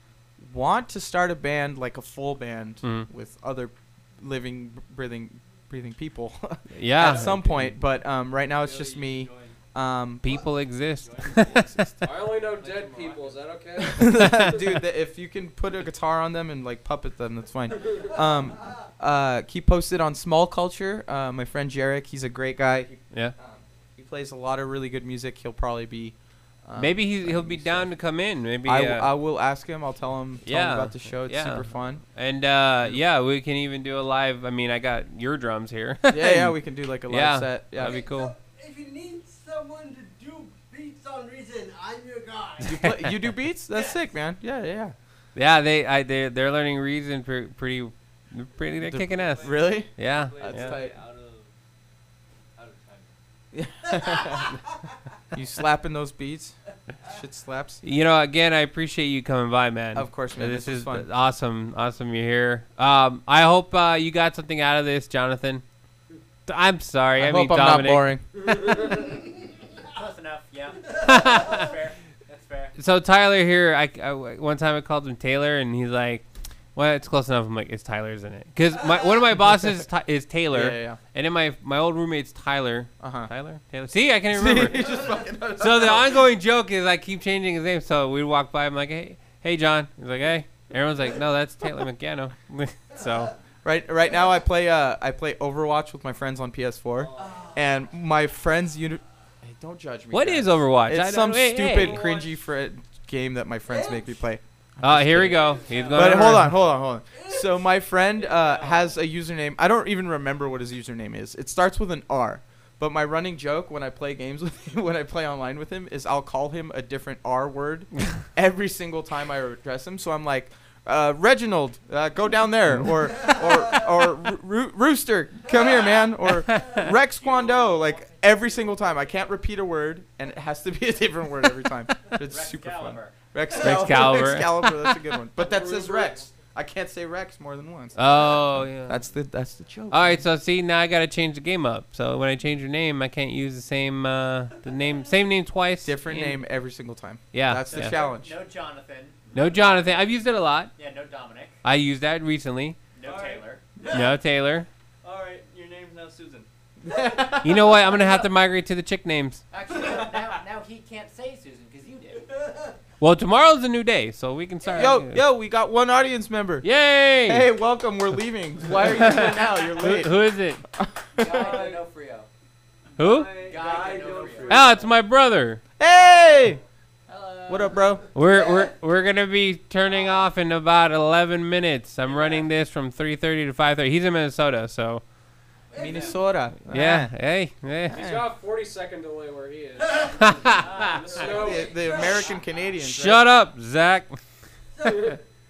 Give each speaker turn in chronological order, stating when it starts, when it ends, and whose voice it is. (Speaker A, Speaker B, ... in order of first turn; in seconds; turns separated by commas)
Speaker A: 0.4-10.4, Speaker B: 2.8-3.1, Speaker B: 6.7-7.8, Speaker C: 7.0-7.3, Speaker C: 8.6-9.6, Speaker B: 10.2-11.7, Speaker C: 11.0-11.5, Speaker A: 11.2-12.1, Speaker D: 12.0-14.4, Speaker C: 12.6-13.4, Speaker A: 13.8-27.9, Speaker B: 26.8-29.1, Speaker A: 28.6-32.0, Speaker B: 30.4-38.3, Speaker A: 36.1-38.0, Speaker E: 37.8-42.9, Speaker A: 42.6-44.9, Speaker B: 45.3-50.8, Speaker A: 48.8-51.0, Speaker C: 49.1-51.5, Speaker C: 52.5-53.1, Speaker A: 53.5-54.6, Speaker A: 55.3-57.8, Speaker B: 57.8-65.6, Speaker A: 59.9-61.1, Speaker B: 66.5-68.1, Speaker A: 67.2-68.2, Speaker F: 69.9-72.7, Speaker B: 70.9-71.8, Speaker E: 71.0-71.5, Speaker B: 72.8-76.2, Speaker B: 76.7-93.3, Speaker A: 80.5-81.0, Speaker A: 83.0-83.3, Speaker A: 84.3-86.2, Speaker A: 93.6-140.2, Speaker C: 97.0-97.6, Speaker E: 97.2-97.9, Speaker B: 100.1-102.0, Speaker C: 101.8-102.4, Speaker E: 103.7-104.1, Speaker B: 104.8-106.6, Speaker C: 105.3-106.2, Speaker E: 107.1-107.6, Speaker C: 108.1-109.0, Speaker B: 126.5-126.9, Speaker F: 127.2-129.2, Speaker F: 132.2-133.2, Speaker B: 133.6-135.0, Speaker D: 135.4-136.2, Speaker B: 137.9-139.0, Speaker B: 139.9-146.4, Speaker A: 145.8-148.4, Speaker B: 147.3-148.0, Speaker F: 147.7-150.1, Speaker B: 149.3-150.7, Speaker F: 150.8-151.6, Speaker B: 151.6-152.8, Speaker F: 152.9-153.6, Speaker C: 153.0-154.0, Speaker B: 153.8-154.7, Speaker C: 155.0-156.5, Speaker A: 156.8-157.7, Speaker B: 157.4-159.4, Speaker F: 159.5-162.3, Speaker E: 162.2-162.7, Speaker B: 163.0-165.2, Speaker F: 164.6-164.9, Speaker A: 164.7-166.7, Speaker B: 166.6-167.5, Speaker A: 167.2-171.6, Speaker B: 168.7-170.6, Speaker F: 171.2-172.3, Speaker C: 171.3-171.8, Speaker B: 173.0-173.3, Speaker C: 173.0-174.9, Speaker F: 173.3-174.8, Speaker B: 174.4-175.6, Speaker A: 175.8-176.6, Speaker F: 177.1-177.8, Speaker A: 177.5-178.1, Speaker B: 178.1-185.0, Speaker E: 178.2-178.5, Speaker E: 185.7-186.2, Speaker A: 185.7-187.1, Speaker B: 186.7-188.1, Speaker A: 187.9-188.3, Speaker D: 187.9-190.4, Speaker E: 189.8-192.4, Speaker B: 190.2-191.2, Speaker F: 190.5-192.3, Speaker D: 191.1-191.7, Speaker A: 191.3-193.2, Speaker B: 192.8-194.2, Speaker E: 194.7-195.1, Speaker D: 194.8-195.2